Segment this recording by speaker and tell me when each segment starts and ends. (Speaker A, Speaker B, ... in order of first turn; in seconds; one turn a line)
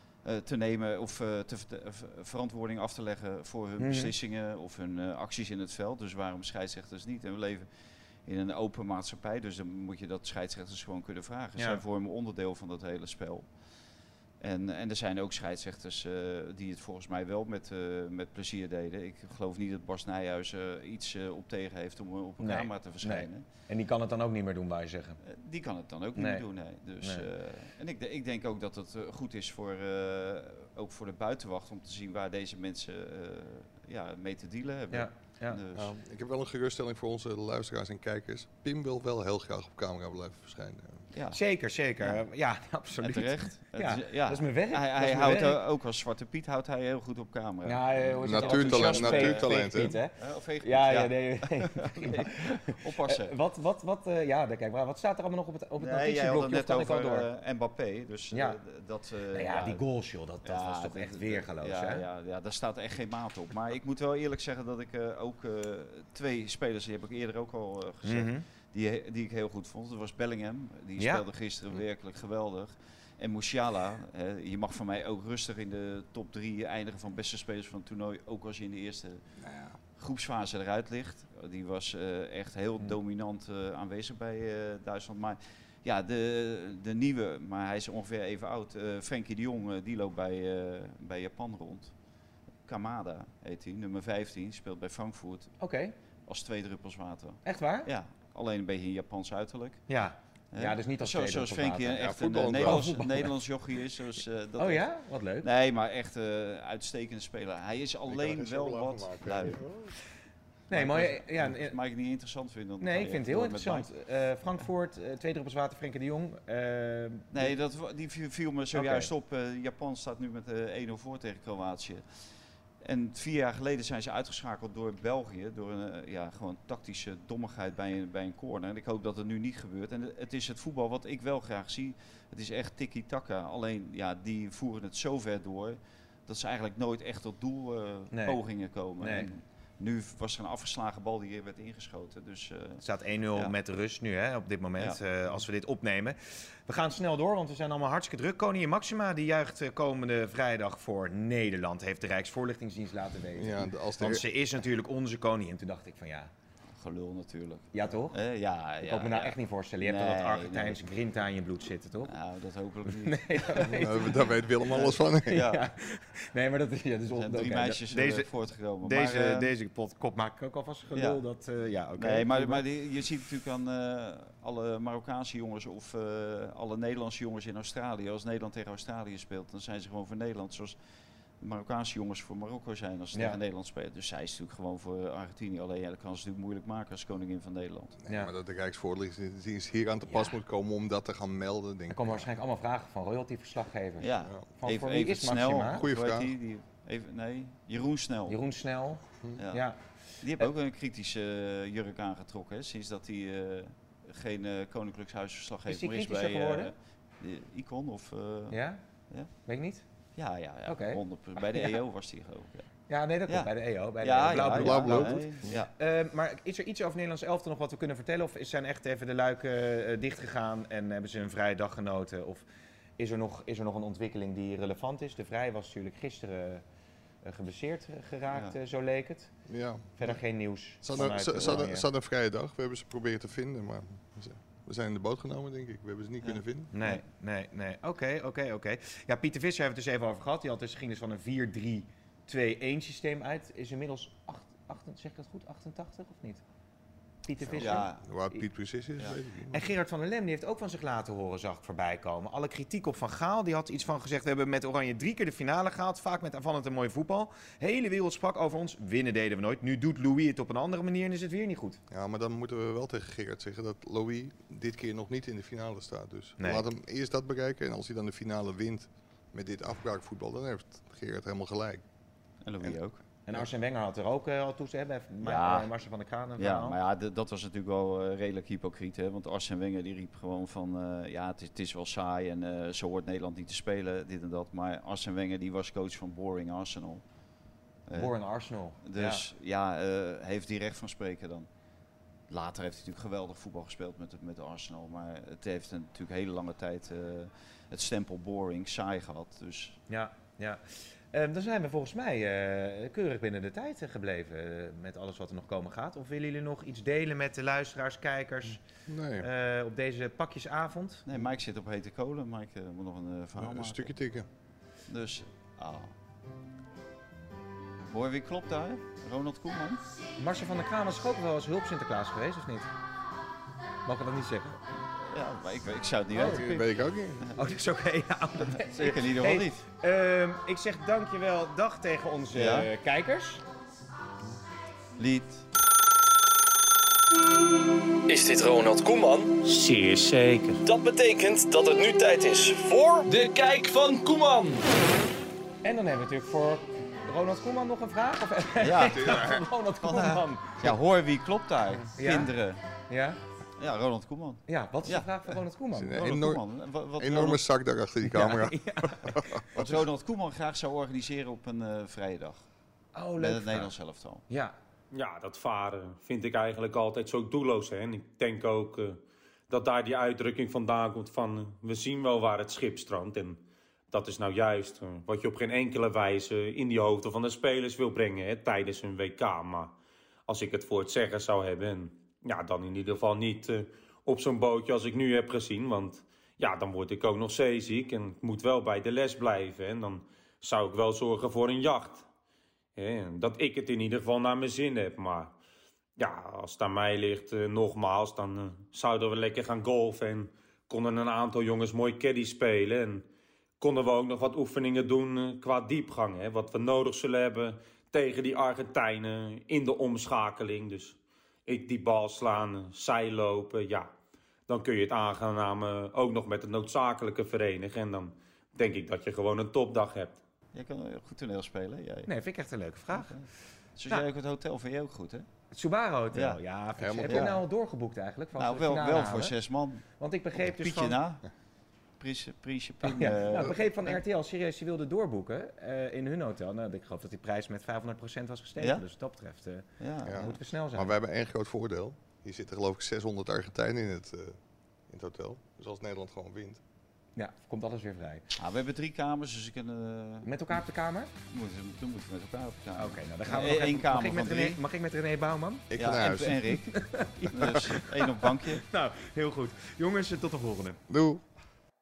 Speaker A: 0.2-7.7
Speaker B: 3.8-4.1
Speaker A: 8.2-13.5
Speaker B: 11.6-11.8
Speaker A: 14.4-23.4
Speaker B: 22.4-25.2
Speaker A: 25.2-35.9
Speaker B: 26.1-26.4
Speaker B: 27.0-27.3
Speaker B: 34.9-35.6
Speaker C: 35.7-41.0
Speaker A: 41.1-41.4
Speaker B: 41.3-45.6
Speaker A: 43.0-53.4
Speaker B: 47.6-57.3
Speaker C: 48.2-50.0
Speaker A: 55.8-59.8
Speaker B: 58.3-58.6
Speaker B: 59.3-62.0
Speaker A: 60.4-79.2
Speaker B: 68.0-68.4
Speaker B: 71.0-71.2
Speaker C: 79.4-79.8
Speaker A: 80.0-91.9
Speaker A: 92.7-95.5
Speaker B: 95.6-95.9
Speaker A: 96.2-99.8
Speaker B: 97.4-97.9
Speaker B: 99.9-103.3
Speaker A: 100.5-104.9
Speaker C: 102.0-103.0
Speaker B: 104.6-105.5
Speaker A: 105.4-109.6
Speaker C: 108.1-110.0
Speaker B: 110.7-111.8
Speaker A: 110.7-113.9
Speaker B: 112.8-117.5
Speaker A: 117.3-122.0
Speaker B: 118.7-119.1
Speaker A: 122.8-143.6
Speaker B: 138.1-138.4
Speaker B: 139.0-139.3
Speaker B: 142.8-156.3
Speaker A: 144.8-145.0
Speaker C: 153.3-154.2
Speaker A: 156.8-160.9
Speaker B: 157.7-158.2
Speaker B: 158.8-162.2
Speaker A: 162.0-164.0
Speaker B: 162.8-172.6
Speaker C: 163.7-165.4
Speaker A: 164.6-165.6
Speaker A: 167.1-169.5
Speaker A: 170.9-171.2
Speaker A: 171.9-180.8
Speaker A: 181.4-187.9
Speaker B: 183.1-183.4
Speaker C: 188.0-192.2
Speaker B: 190.1-190.4
Speaker B: 191.9-195.9
Speaker A: 194.0-198.4
Speaker C: 195.7-196.3
Speaker B: 198.3-199.8
Speaker A: 199.3-199.6
Speaker A: 200.2-209.3
Speaker B: 205.7-206.7
Speaker B: 208.5-208.8
Speaker B: 209.4-209.8
Speaker A: 210.1-212.7
Speaker B: 210.7-211.8
Speaker B: 212.9-222.4
Speaker A: 213.2-215.7
Speaker C: 214.5-215.5
Speaker B: 223.0-226.6
Speaker B: 227.2-229.3
Speaker A: 228.3-228.6
Speaker C: 229.5-230.2
Speaker B: 230.0-231.9
Speaker C: 230.8-236.7
Speaker A: 236.2-237.0
Speaker B: 236.7-246.4
Speaker B: 247.2-248.4
Speaker C: 247.5-249.7
Speaker A: 247.5-248.0
Speaker B: 249.5-261.8
Speaker C: 261.9-271.8
Speaker B: 266.4-266.7
Speaker A: 272.4-273.0
Speaker B: 273.2-276.8
Speaker A: 275.2-275.7
Speaker A: 276.4-287.0
Speaker A: 287.9-288.1
Speaker B: 287.9-289.3
Speaker A: 288.8-291.5
Speaker A: 292.3-299.8
Speaker B: 299.9-308.6
Speaker C: 308.9-309.3
Speaker B: 309.2-311.1
Speaker A: 311.1-313.9
Speaker C: 313.4-314.3
Speaker A: 314.9-315.9
Speaker A: 317.9-319.8
Speaker B: 320.2-322.7
Speaker B: 323.9-324.6
Speaker A: 325.0-327.4
Speaker B: 326.1-326.5
Speaker C: 326.2-327.2
Speaker B: 327.3-333.4
Speaker A: 328.4-329.7
Speaker A: 332.3-332.7
Speaker A: 335.0-335.4
Speaker D: 338.1-339.4
Speaker E: 339.4-340.6
Speaker D: 340.6-344.6
Speaker B: 345.6-350.7
Speaker A: 348.6-349.3
Speaker C: 348.8-349.4
Speaker A: 349.8-352.6
Speaker B: 351.9-352.3
Speaker B: 352.9-353.2
Speaker A: 353.6-355.4
Speaker B: 354.5-356.1
Speaker C: 355.7-356.4
Speaker A: 355.9-357.4
Speaker C: 357.0-359.7
Speaker B: 358.0-359.4
Speaker A: 359.5-362.4
Speaker B: 362.9-363.7
Speaker A: 363.2-364.2
Speaker B: 364.3-364.5
Speaker E: 364.9-373.4
Speaker E: 373.9-379.7
Speaker E: 380.3-392.0
Speaker E: 392.8-395.3
Speaker E: 396.0-403.0
Speaker E: 403.6-413.9
Speaker E: 414.5-420.2
Speaker A: 420.5-422.1
Speaker B: 422.1-423.1
Speaker A: 422.9-425.2
Speaker B: 425.5-429.3
Speaker A: 426.1-426.4
Speaker C: 426.8-427.4
Speaker A: 427.1-427.3
Speaker A: 428.4-429.8
Speaker B: 430.0-431.0
Speaker A: 430.4-431.2
Speaker A: 432.0-434.0
Speaker B: 432.8-440.9
Speaker A: 438.6-438.8
Speaker A: 439.8-440.4
Speaker C: 440.1-444.4
Speaker C: 444.9-446.6
Speaker B: 447.1-448.2
Speaker A: 448.3-450.6
Speaker B: 450.2-451.1
Speaker A: 451.3-454.6
Speaker B: 452.8-455.7
Speaker C: 455.7-456.6
Speaker A: 455.8-458.6
Speaker B: 456.6-457.7
Speaker B: 458.5-460.8
Speaker C: 460.9-461.2